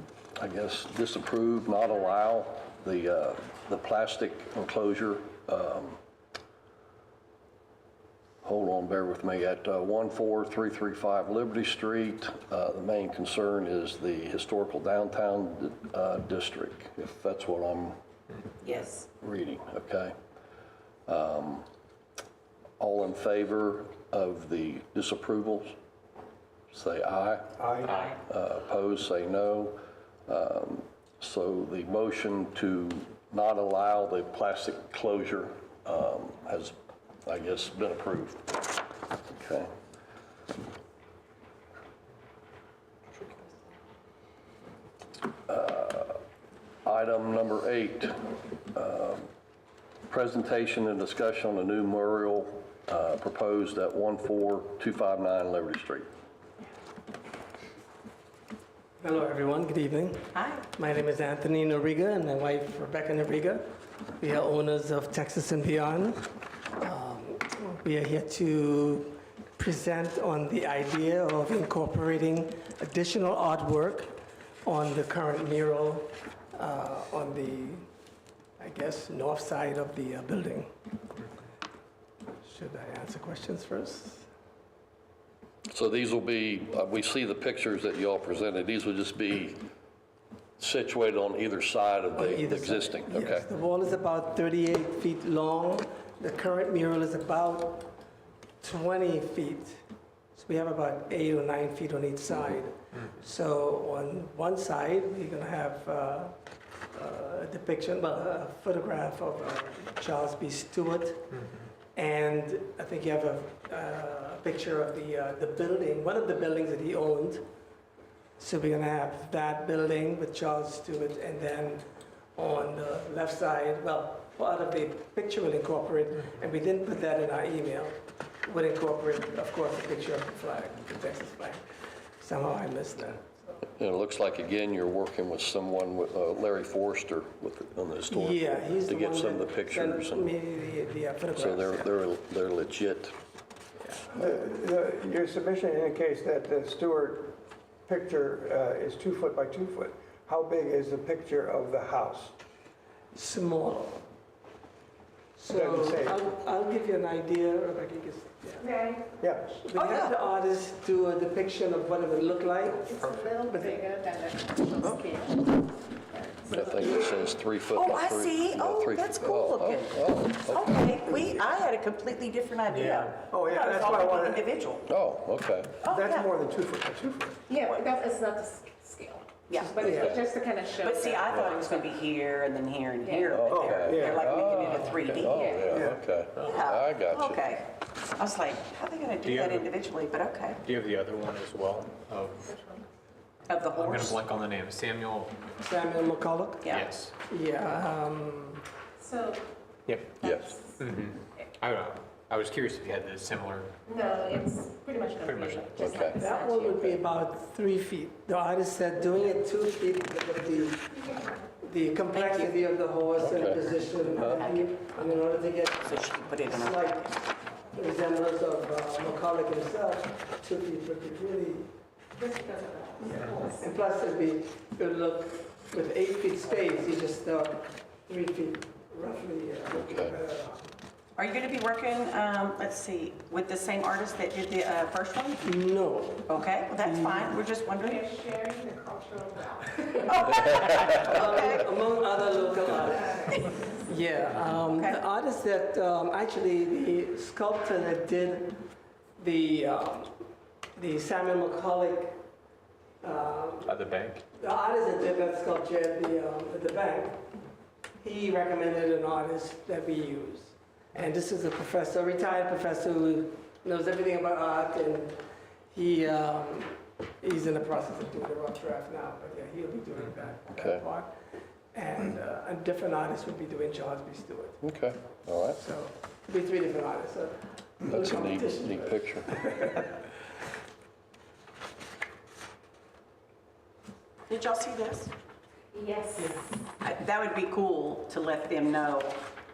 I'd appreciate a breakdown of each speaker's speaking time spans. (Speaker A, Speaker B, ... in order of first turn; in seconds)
Speaker A: 0.4-6.0, 8.4-18.0, 19.2-20.1, 21.1-21.7, 22.8-25.8, 26.7-27.6, 28.2-36.8, 37.3-38.6, 39.3-39.7, 45.5-46.2, 46.9-48.2, 48.7-49.3, 50.1-56.1, 85.7-89.6, 90.6-93.5, 133.8-140.3, 141.3-143.2, 166.5-171.4, 174.9-175.8, 183.3-187.5, 200.2-200.6, 205.8-206.2, 213.2-214.4, 229.7-230.2, 270.5-270.8, 274.6-275.6, 277.9-279.4
Speaker B: 18.6-19.1, 27.9-28.2, 60.3-60.6, 159.7-160.2, 164.8-165.1, 167.7-174.8, 175.8-176.3, 177.6-177.9, 179.5-180.2, 180.8-185.4, 186.4-190.6, 193.5-194.2, 196.6-196.9, 212.1-212.6, 214.2-214.7, 215.8-216.9, 231.2-235.5, 236.3-238.1, 240.0-241.7, 244.8-245.0, 284.3-285.1, 286.8-289.2
Speaker C: 27.6-27.9, 144.1-152.4, 155.5-156.2, 159.2-159.5, 173.3-174.8, 175.8-177.4, 179.8-180.2, 183.5-184.3, 185.7-186.0
Speaker D: 59.0-77.8, 78.6-80.7, 82.4-84.3, 92.1-97.9, 98.6-99.8, 100.3-106.3, 106.9-111.4, 111.9-117.4, 118.4-121.8, 122.4-131.6, 132.2-133.6, 138.1-141.9, 153.1-154.1, 155.4-158.7, 159.5-163.9, 195.6-198.7, 206.2-221.7, 223.0-230.7, 235.4-237.4, 240.9-248.6, 249.2-250.2, 250.8-252.2, 253.0-253.8, 254.3-257.2, 258.0-265.2, 265.7-271.1, 271.7-274.6, 275.6-279.9
Speaker E: 158.6-159.1, 162.9-167.3, 177.5-181.9, 183.0-183.4, 185.2-185.8, 192.4-192.8, 199.0-199.4, 200.2-200.9, 203.9-207.0, 222.2-223.6, 237.7-241.0, 242.7-243.9, 285.7-286.6
Speaker F: 163.0-163.3, 172.7-173.2, 189.2-189.7, 190.6-192.5, 193.7-195.3, 196.7-197.1, 199.9-200.2, 200.8-203.8, 205.2-206.2, 253.7-254.2